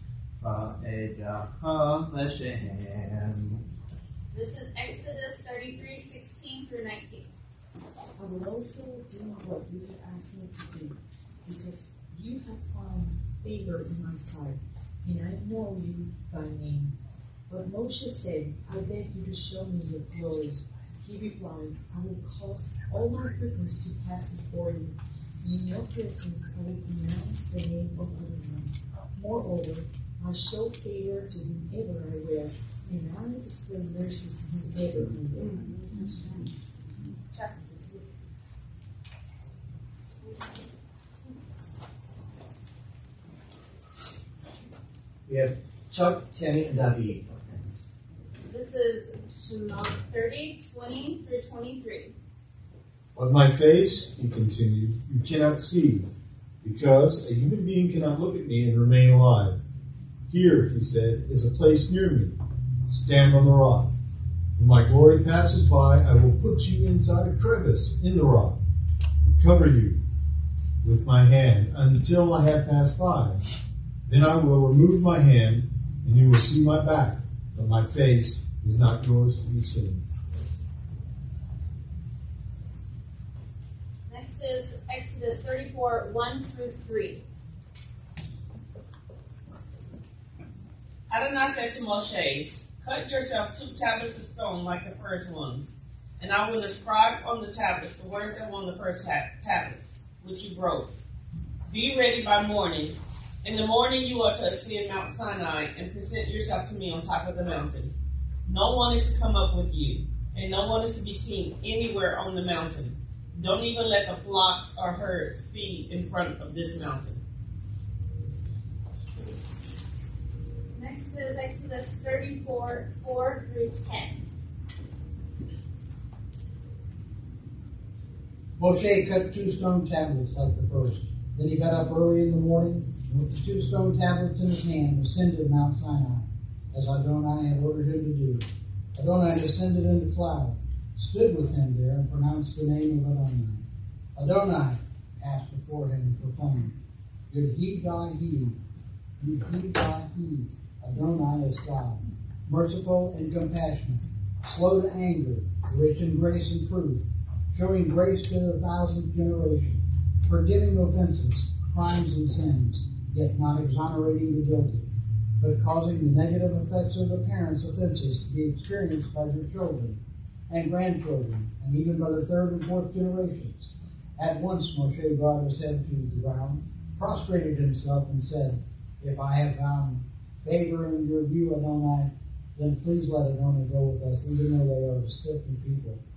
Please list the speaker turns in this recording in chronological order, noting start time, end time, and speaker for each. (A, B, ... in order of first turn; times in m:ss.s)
0:00.4-0:03.6 A
0:04.3-0:07.3 B
0:08.2-0:16.9 C
0:17.5-0:36.4 C
0:35.4-0:36.5 B
0:37.2-0:38.1 B
0:45.3-0:47.8 A
0:48.4-0:52.1 B
0:53.1-0:56.1 D
0:56.6-0:59.6 D
1:00.3-1:02.4 D
1:02.9-1:03.9 D
1:04.6-1:08.6 D
1:09.2-1:10.0 D
1:10.8-1:13.4 D
1:14.1-1:20.0 D
1:24.1-1:27.2 B
1:31.1-1:40.9 E
1:41.7-1:47.9 E
1:48.4-1:57.2 E
2:00.7-2:04.2 B
2:08.6-2:23.6 F
2:24.2-2:26.7 F
2:27.3-2:28.6 F
2:29.2-2:44.9 F
2:45.4-2:50.0 F
2:50.5-3:06.0 F